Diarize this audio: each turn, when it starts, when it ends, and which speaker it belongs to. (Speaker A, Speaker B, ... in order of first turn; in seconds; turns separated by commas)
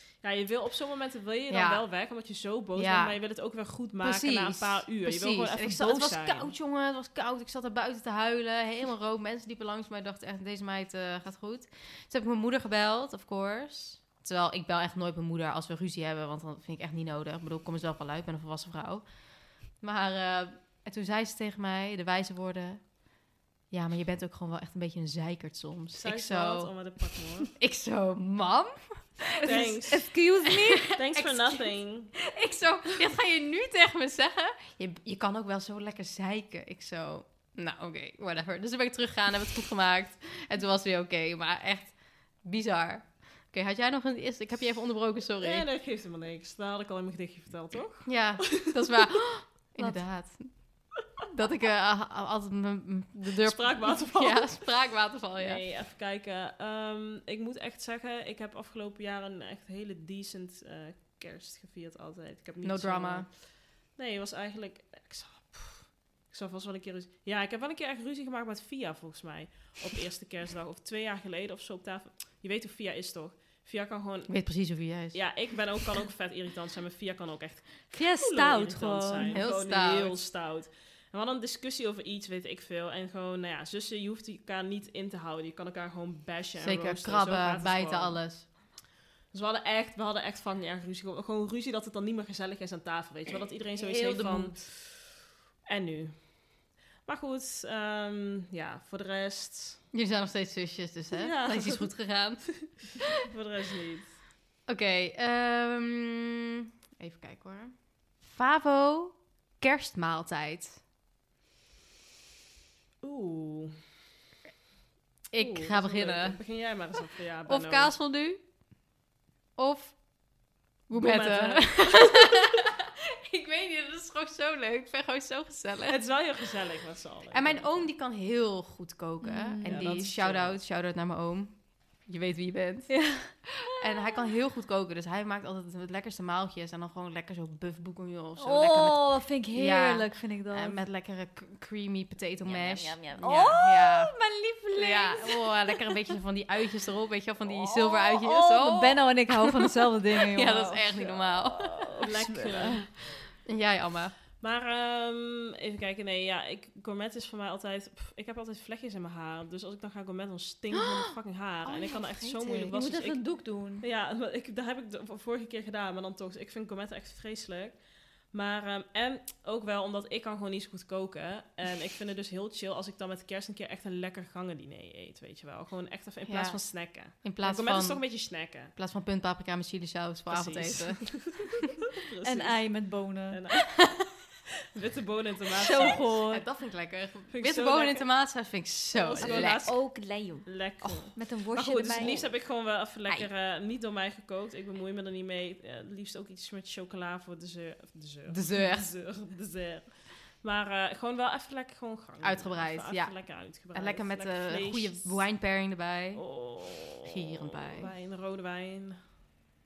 Speaker A: 0.2-6.5, Speaker B: 1.5-1.8, Speaker B: 2.8-3.2, Speaker B: 4.0-19.1, Speaker B: 19.7-23.0, Speaker B: 23.7-26.9, Speaker A: 25.9-27.5, Speaker B: 27.6-31.7, Speaker C: 29.4-30.9, Speaker A: 29.4-30.1, Speaker A: 30.9-32.1, Speaker B: 32.3-45.7, Speaker A: 45.4-48.9, Speaker B: 48.0-55.6, Speaker C: 49.8-50.0, Speaker A: 53.4-54.7, Speaker A: 55.4-88.5, Speaker B: 62.6-63.3, Speaker B: 74.3-75.6, Speaker C: 77.9-79.4, Speaker B: 79.3-80.2, Speaker B: 86.6-88.5, Speaker A: 89.3-95.1, Speaker B: 93.9-94.5, Speaker A: 95.7-99.8, Speaker B: 99.9-102.7, Speaker A: 101.1-101.9, Speaker A: 102.6-104.2, Speaker B: 104.7-110.8, Speaker A: 113.0-113.8, Speaker B: 115.3-116.4, Speaker A: 115.3-117.9, Speaker B: 117.5-118.4, Speaker B: 119.6-126.0, Speaker A: 120.9-122.3, Speaker A: 125.9-127.8, Speaker B: 127.3-144.2, Speaker C: 129.2-130.0, Speaker A: 129.6-130.6, Speaker C: 132.9-133.5, Speaker C: 138.4-140.8, Speaker C: 142.4-146.0, Speaker B: 144.7-151.9, Speaker C: 147.5-152.9, Speaker A: 152.0-152.9, Speaker B: 153.4-154.2, Speaker A: 154.4-178.7, Speaker B: 161.6-162.7, Speaker C: 162.7-163.8, Speaker B: 176.2-181.4, Speaker A: 180.3-184.0, Speaker C: 182.2-183.4, Speaker A: 184.7-186.1, Speaker C: 185.6-186.4, Speaker B: 185.8-189.7, Speaker A: 187.3-188.1, Speaker A: 188.9-205.2, Speaker C: 189.2-190.5, Speaker B: 190.8-191.1, Speaker C: 191.1-192.3, Speaker B: 191.9-192.4, Speaker B: 198.3-198.9, Speaker B: 202.2-206.4, Speaker A: 206.1-209.2, Speaker B: 207.0-207.9